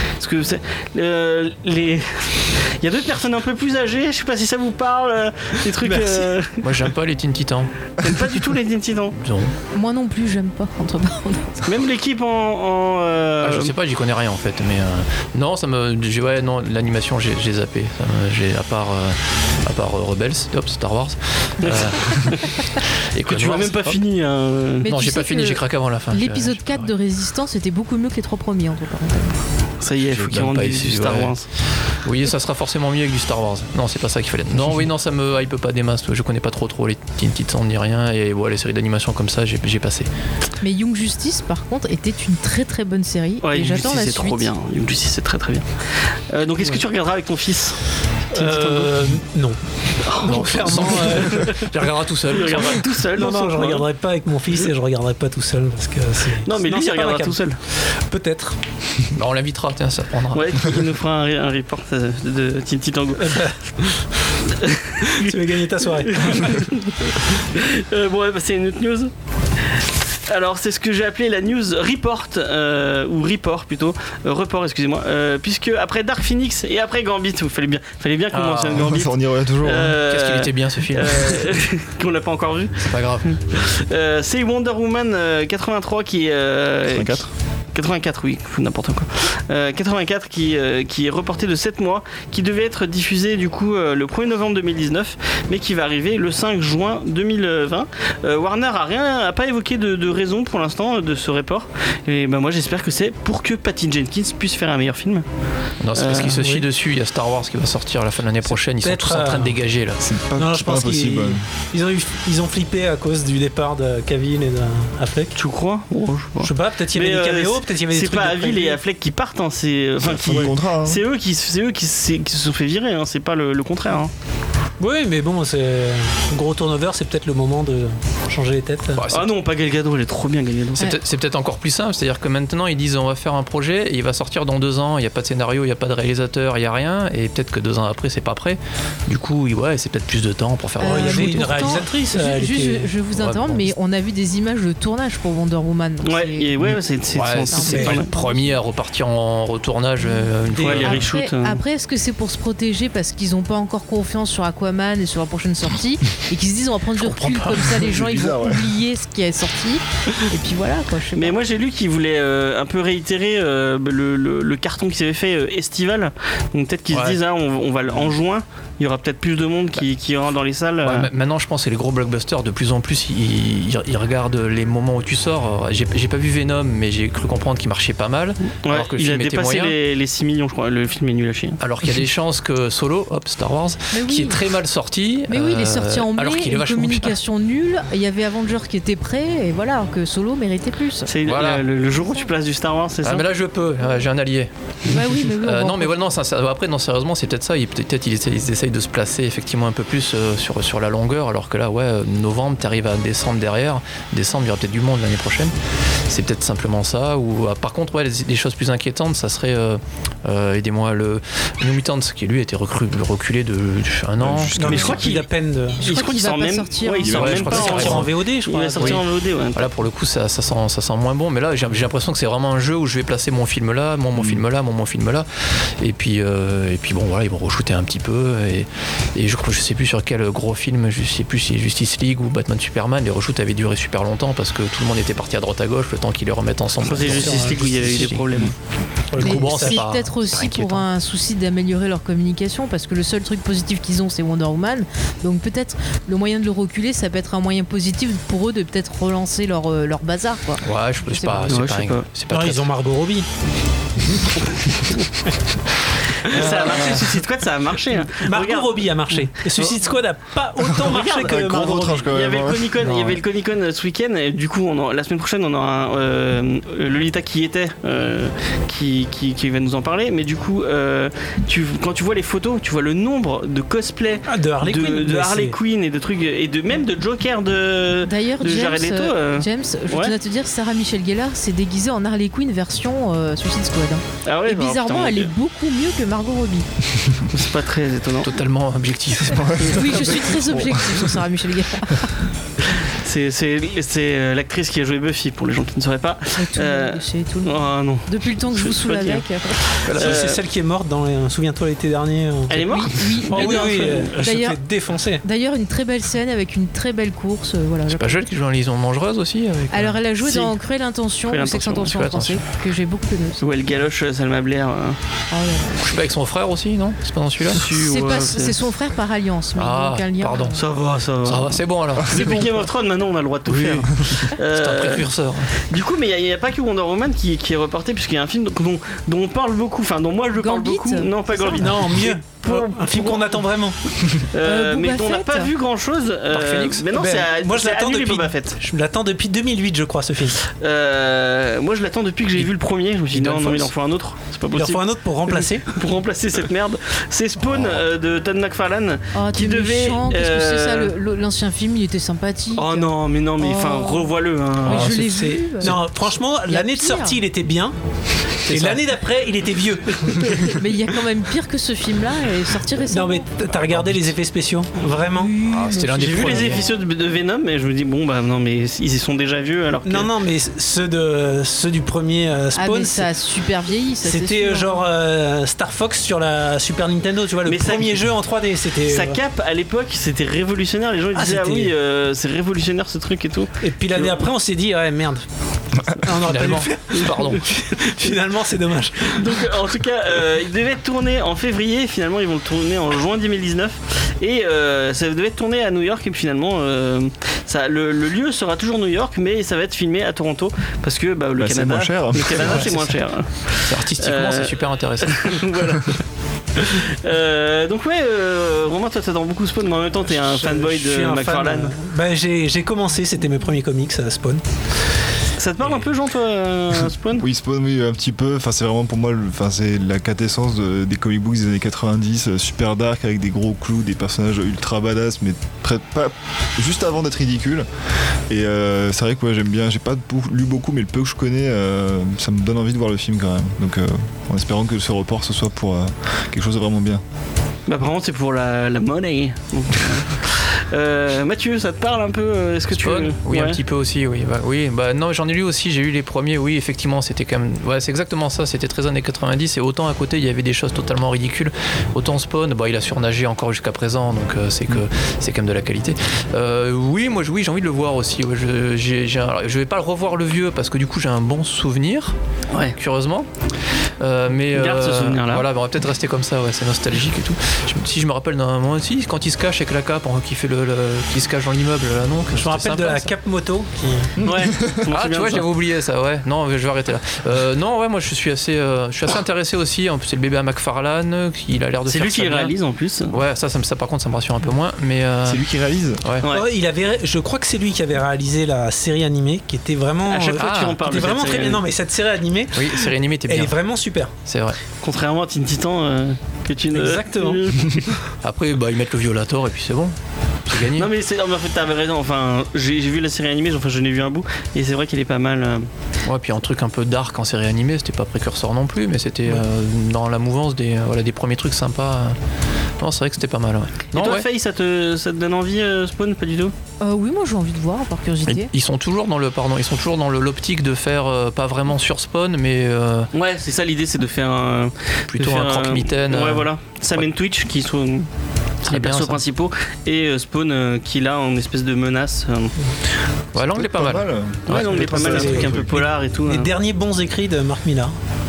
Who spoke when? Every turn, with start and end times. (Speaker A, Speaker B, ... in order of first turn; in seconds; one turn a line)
Speaker A: 0.2-6.7
Speaker B: 5.8-6.3
Speaker C: 6.6-7.7
Speaker A: 8.0-9.2
Speaker C: 9.2-9.5
Speaker D: 9.7-11.7
Speaker A: 11.7-13.7
Speaker C: 13.4-23.9
Speaker A: 21.6-22.4
Speaker A: 23.2-24.9
Speaker D: 24.8-29.4
Speaker C: 24.8-26.9
Speaker A: 29.8-31.4
Speaker C: 30.1-31.3
Speaker C: 32.0-40.1
Speaker D: 40.6-44.5
Speaker A: 43.4-47.8
Speaker A: 48.3-49.0
Speaker B: 48.3-51.7
Speaker A: 50.0-51.7
Speaker C: 50.2-53.0
Speaker A: 52.3-53.9
Speaker B: 53.1-58.6
Speaker A: 56.4-57.6
Speaker C: 59.1-60.6
Speaker A: 60.3-63.4
Speaker B: 63.2-64.2
Speaker A: 64.5-69.1
Speaker B: 65.0-66.7
Speaker A: 69.7-105.2
Speaker C: 78.3-78.9
Speaker E: 78.7-80.0
Speaker C: 80.0-81.5
Speaker C: 82.8-83.4
Speaker E: 86.9-87.3
Speaker C: 105.8-110.0
Speaker A: 106.0-106.4
Speaker B: 106.4-106.7
Speaker B: 108.4-109.6
Speaker E: 110.0-111.4
Speaker B: 110.3-115.3
Speaker A: 115.3-124.1
Speaker B: 116.4-118.8
Speaker E: 120.0-121.0
Speaker B: 124.8-129.1
Speaker C: 128.9-129.3
Speaker A: 129.1-130.9
Speaker C: 130.8-141.8
Speaker D: 140.8-146.6
Speaker B: 140.8-142.9
Speaker C: 143.1-143.7
Speaker A: 146.0-148.1
Speaker C: 147.1-151.1
Speaker D: 147.5-148.5
Speaker B: 147.7-148.0
Speaker B: 150.5-150.9
Speaker A: 150.6-151.6
Speaker D: 150.8-161.4
Speaker C: 157.0-157.8
Speaker E: 157.7-158.7
Speaker A: 161.2-171.1
Speaker C: 166.9-167.2
Speaker C: 170.8-179.7
Speaker A: 178.5-181.6
Speaker C: 181.6-187.2
Speaker D: 183.9-184.4
Speaker D: 185.3-191.1
Speaker A: 191.1-193.2
Speaker C: 191.2-191.6
Speaker C: 193.0-205.5
Speaker D: 194.9-196.0
Speaker C: 206.1-215.0
Speaker E: 214.2-215.0
Speaker B: 214.6-215.8
Speaker A: 214.6-215.3
Speaker D: 215.8-217.7
Speaker A: 215.8-219.7
Speaker C: 217.0-218.1
Speaker B: 217.5-219.0
Speaker C: 218.8-225.3
Speaker E: 224.1-224.4
Speaker C: 225.8-238.5
Speaker A: 236.8-238.5
Speaker B: 237.0-238.1
Speaker B: 239.1-239.8
Speaker C: 239.2-240.8
Speaker D: 239.2-251.6
Speaker C: 250.6-252.7
Speaker A: 251.5-252.1
Speaker B: 252.3-253.3
Speaker B: 256.2-257.2
Speaker A: 256.2-259.8
Speaker B: 258.1-262.1
Speaker A: 260.8-280.1
Speaker E: 260.9-262.8
Speaker C: 262.8-263.2
Speaker B: 274.3-275.5
Speaker D: 278.0-286.7
Speaker A: 284.2-285.3
Speaker A: 287.3-288.4
Speaker C: 288.2-290.3
Speaker E: 289.2-290.8
Speaker D: 289.6-292.2
Speaker A: 292.7-300.4
Speaker D: 296.4-299.6
Speaker C: 299.9-300.2
Speaker B: 299.9-302.7
Speaker A: 302.5-304.2
Speaker D: 302.7-304.6
Speaker B: 303.3-305.2
Speaker D: 305.2-308.2
Speaker C: 307.9-310.0
Speaker D: 309.7-313.4
Speaker A: 310.2-310.5
Speaker A: 311.3-312.0
Speaker C: 311.8-312.4
Speaker A: 313.4-315.0
Speaker D: 315.3-315.9
Speaker C: 315.8-317.6
Speaker A: 317.4-318.6
Speaker D: 317.5-320.6
Speaker C: 319.6-320.6
Speaker A: 320.6-333.4
Speaker C: 321.2-322.6
Speaker C: 323.5-325.6
Speaker D: 330.3-331.7
Speaker B: 331.6-334.2
Speaker A: 334.2-338.6
Speaker D: 334.4-335.5
Speaker C: 336.3-336.8
Speaker B: 336.9-340.4
Speaker A: 340.5-350.9
Speaker C: 343.1-343.7
Speaker B: 344.5-345.7
Speaker D: 349.1-357.2
Speaker A: 352.5-355.0
Speaker B: 354.6-357.8
Speaker B: 358.4-360.7
Speaker C: 358.4-358.8
Speaker D: 360.4-363.3
Speaker B: 362.9-365.4
Speaker D: 365.2-366.4
Speaker C: 365.4-366.7
Speaker A: 365.9-370.1
Speaker B: 369.8-373.1
Speaker D: 372.5-374.9
Speaker B: 374.0-379.2
Speaker A: 377.4-378.1
Speaker A: 378.8-384.3
Speaker B: 381.1-381.7
Speaker B: 383.6-385.2
Speaker B: 385.8-389.5
Speaker C: 386.2-387.5
Speaker A: 389.1-406.0
Speaker E: 401.4-402.7
Speaker C: 403.6-405.4
Speaker A: 406.5-411.7
Speaker B: 410.0-414.4
Speaker A: 415.4-417.2
Speaker E: 417.2-427.7
Speaker E: 428.3-437.0
Speaker A: 437.7-443.6
Speaker C: 442.7-462.1
Speaker A: 462.5-462.8
Speaker C: 462.8-463.3
Speaker C: 464.0-473.1
Speaker A: 464.5-465.4
Speaker B: 472.3-474.1
Speaker A: 474.2-475.5
Speaker E: 474.2-474.7
Speaker C: 474.9-482.5
Speaker A: 481.9-483.1
Speaker C: 483.1-485.4
Speaker E: 485.2-486.0
Speaker C: 486.0-486.3
Speaker A: 486.2-486.5
Speaker B: 486.3-494.1
Speaker A: 490.1-491.6
Speaker C: 490.4-490.8
Speaker C: 492.5-493.5
Speaker C: 494.2-494.6
Speaker A: 494.8-498.0
Speaker B: 496.7-497.4
Speaker C: 498.2-500.9
Speaker A: 500.7-505.7
Speaker C: 506.1-512.2
Speaker C: 512.8-514.3
Speaker A: 513.9-516.5
Speaker D: 516.8-518.5
Speaker C: 518.2-523.1
Speaker A: 523.1-528.1
Speaker C: 525.1-527.0
Speaker A: 528.6-532.5
Speaker C: 528.7-529.2
Speaker C: 533.3-534.8
Speaker E: 533.3-535.8
Speaker A: 534.5-536.5
Speaker B: 534.6-537.9